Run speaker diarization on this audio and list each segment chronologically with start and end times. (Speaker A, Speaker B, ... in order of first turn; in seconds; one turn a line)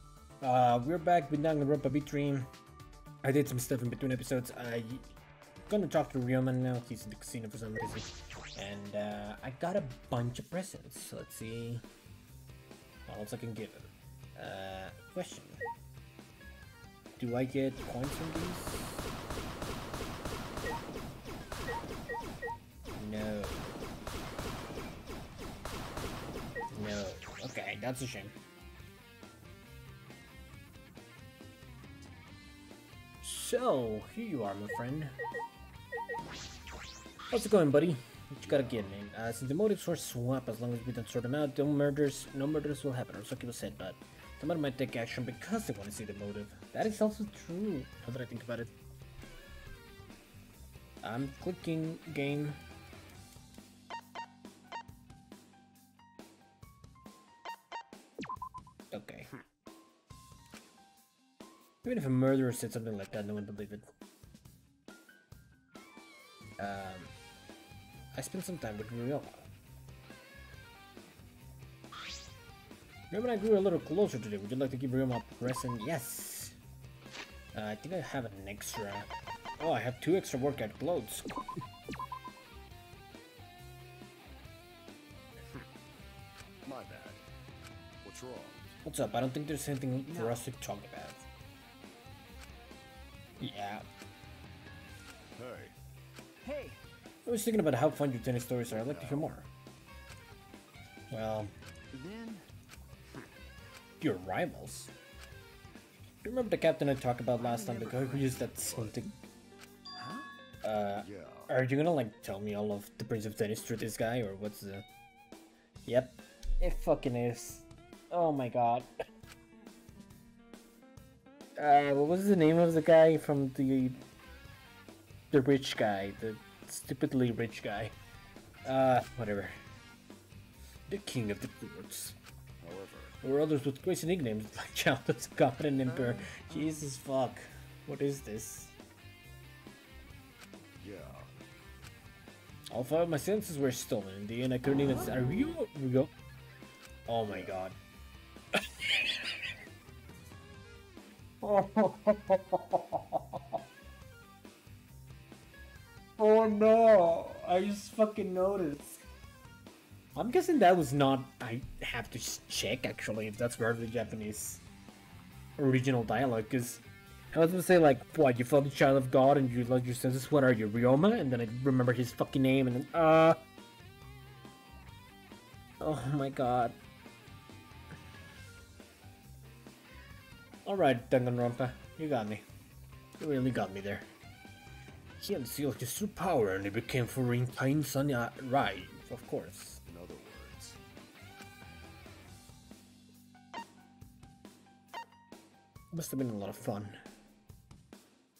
Speaker A: 0.4-2.5
Speaker A: 3.2-5.1
Speaker A: 5.7-11.8
Speaker A: 13.1-15.6
Speaker A: 17.2-19.0
Speaker A: 22.9-23.8
Speaker A: 26.7-28.4
Speaker A: 33.2-35.1
Speaker A: 37.3-48.7
Speaker B: 38.4-39.0
Speaker A: 51.0-52.6
Speaker A: 58.9-59.3
Speaker A: 61.8-63.9
Speaker A: 66.6-67.1
Speaker A: 68.1-69.5
Speaker A: 73.1-76.6
Speaker A: 77.5-81.6
Speaker B: 86.7-87.2
Speaker B: 88.0-88.8
Speaker A: 88.8-91.2
Speaker C: 90.0-90.5
Speaker A: 93.4-93.9
Speaker B: 95.3-95.8
Speaker C: 96.4-96.8
Speaker A: 97.3-99.5
Speaker B: 98.7-99.3
Speaker A: 101.1-101.5
Speaker C: 101.9-102.5
Speaker A: 104.0-104.9
Speaker A: 106.2-109.1
Speaker C: 107.3-108.6
Speaker B: 108.5-109.0
Speaker C: 110.0-110.3
Speaker A: 110.6-114.9
Speaker B: 111.0-111.5
Speaker A: 115.8-118.9
Speaker A: 121.6-124.0
Speaker A: 125.3-128.0
Speaker A: 128.6-129.6
Speaker A: 130.9-132.2
Speaker B: 132.6-133.2
Speaker A: 133.2-138.8
Speaker C: 135.8-136.9
Speaker B: 140.8-141.3
Speaker A: 142.7-146.1
Speaker A: 147.1-147.8
Speaker B: 147.3-147.6
Speaker A: 148.5-149.4
Speaker A: 151.4-153.6
Speaker A: 156.2-159.0
Speaker A: 160.1-164.6
Speaker A: 165.6-173.4
Speaker A: 175.8-176.8
Speaker A: 180.6-182.4
Speaker A: 183.2-184.1
Speaker A: 185.2-189.8
Speaker B: 189.8-190.8
Speaker A: 195.9-197.0